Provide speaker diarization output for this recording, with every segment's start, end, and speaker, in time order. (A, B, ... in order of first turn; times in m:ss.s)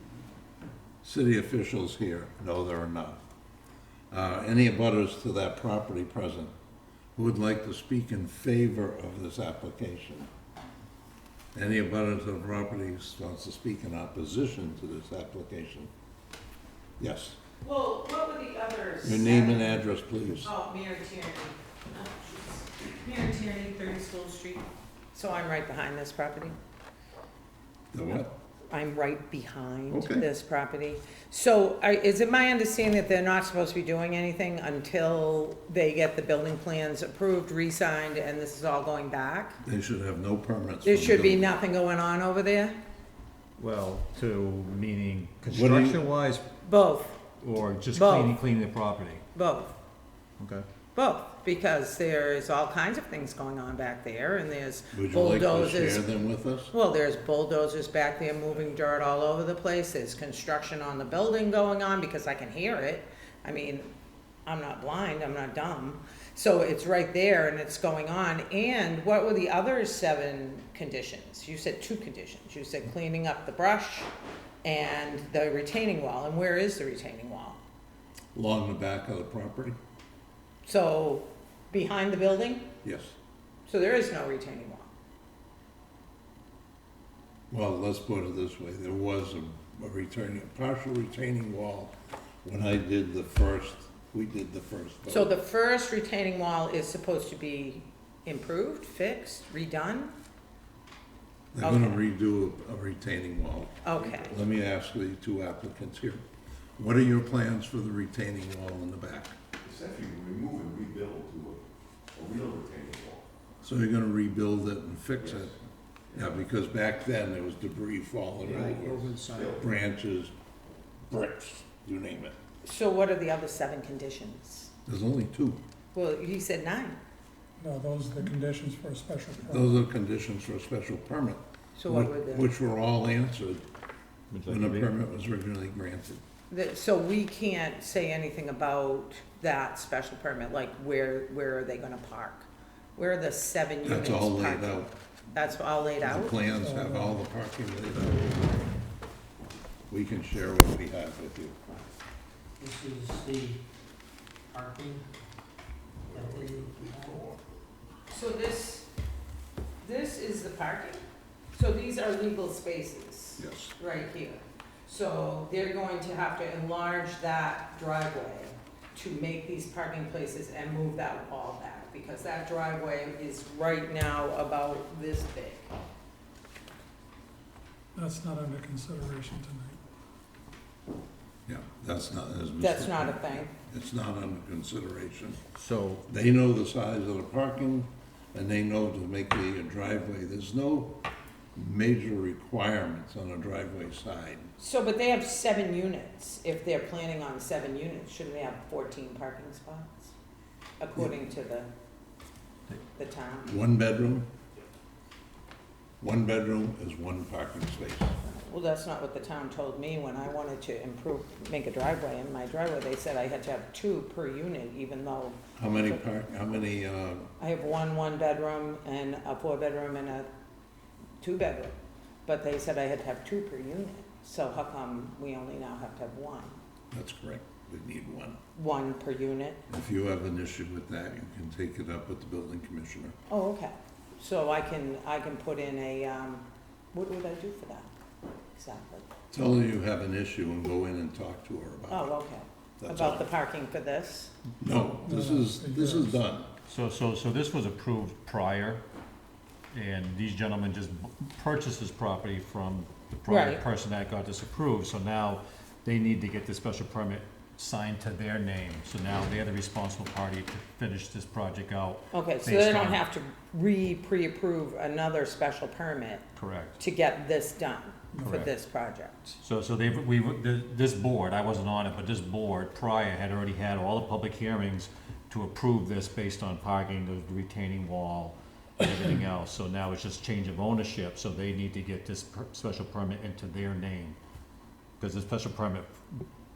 0:01.0-0:03.2 A
0:04.1-0:06.5 A
0:07.2-0:10.3 A
0:11.5-0:15.9 A
0:17.0-0:17.4 A
0:17.6-0:19.8 B
0:19.0-0:20.5 A
0:20.4-0:26.6 B
0:27.9-0:28.3 A
0:28.7-0:39.6 B
0:29.9-0:30.2 A
0:39.6-0:41.5 A
0:40.8-0:42.8 B
0:43.6-0:46.4 C
0:45.4-0:46.0 A
0:46.6-0:47.2 B
0:47.4-0:49.2 C
0:47.9-0:48.4 B
0:49.3-0:49.8 B
0:50.4-0:50.6 C
0:50.9-0:56.1 B
0:54.9-0:56.7 A
0:56.7-1:03.9 B
1:04.4-1:14.1 B
1:14.6-1:17.6 B
1:18.3-1:19.8 A
1:20.6-1:22.7 B
1:22.8-1:23.1 A
1:23.7-1:24.9 B
1:27.5-1:35.4 A
1:35.1-1:40.1 B
1:41.5-1:46.2 A
1:41.6-1:42.0 B
1:43.8-1:44.3 B
1:46.8-1:49.4 A
1:49.6-1:53.2 D
1:53.6-1:55.5 A
1:55.2-1:55.5 D
1:56.1-2:00.3 A
1:58.4-1:59.7 E
1:59.3-1:59.6 D
2:01.1-2:02.3 A
2:02.6-2:04.7 B
2:04.8-2:05.6 A
2:05.9-2:07.0 B
2:07.6-2:09.8 F
2:09.4-2:13.6 A
2:11.8-2:12.5 B
2:14.3-2:14.9 C
2:14.4-2:16.2 A
2:16.5-2:26.4 B
2:23.8-2:24.9 A
2:26.0-2:28.6 A
2:26.5-2:27.2 F
2:29.9-2:31.6 A
2:32.6-2:33.6 E
2:34.5-2:35.0 E
2:36.1-2:37.3 E
2:36.1-2:37.4 A
2:38.1-2:38.9 B
2:39.8-2:41.0 B
2:41.5-2:55.7 B
2:43.4-2:43.7 A
2:57.9-2:59.8 F
3:01.5-3:05.4 A
3:02.6-3:03.5 B
3:05.6-3:06.0 C
3:06.1-3:11.0 A
3:11.5-3:14.5 A
3:14.6-3:20.1 B
3:20.8-3:21.7 B
3:23.0-3:23.6 B
3:23.4-3:24.3 A
3:26.0-3:28.1 A
3:28.2-3:35.4 B
3:35.6-3:37.3 A
3:37.4-3:40.3 B
3:41.2-3:41.7 B
3:42.2-3:46.6 B
3:46.9-3:48.4 A
3:48.5-3:49.6 B
3:49.7-3:53.1 A
3:53.3-3:57.9 B
3:58.5-3:59.0 B
3:59.3-4:02.1 A
4:01.9-4:04.3 B
4:02.8-4:03.3 A
4:04.6-4:06.5 A
4:05.0-4:06.2 F
4:06.7-4:08.8 C
4:09.7-4:23.0 C
4:13.2-4:13.6 B
4:22.1-4:26.2 B
4:26.4-4:26.8 C
4:26.8-4:29.4 B
4:28.1-4:28.4 F
4:28.2-4:28.5 C
4:29.4-4:44.2 C
4:45.0-4:46.2 C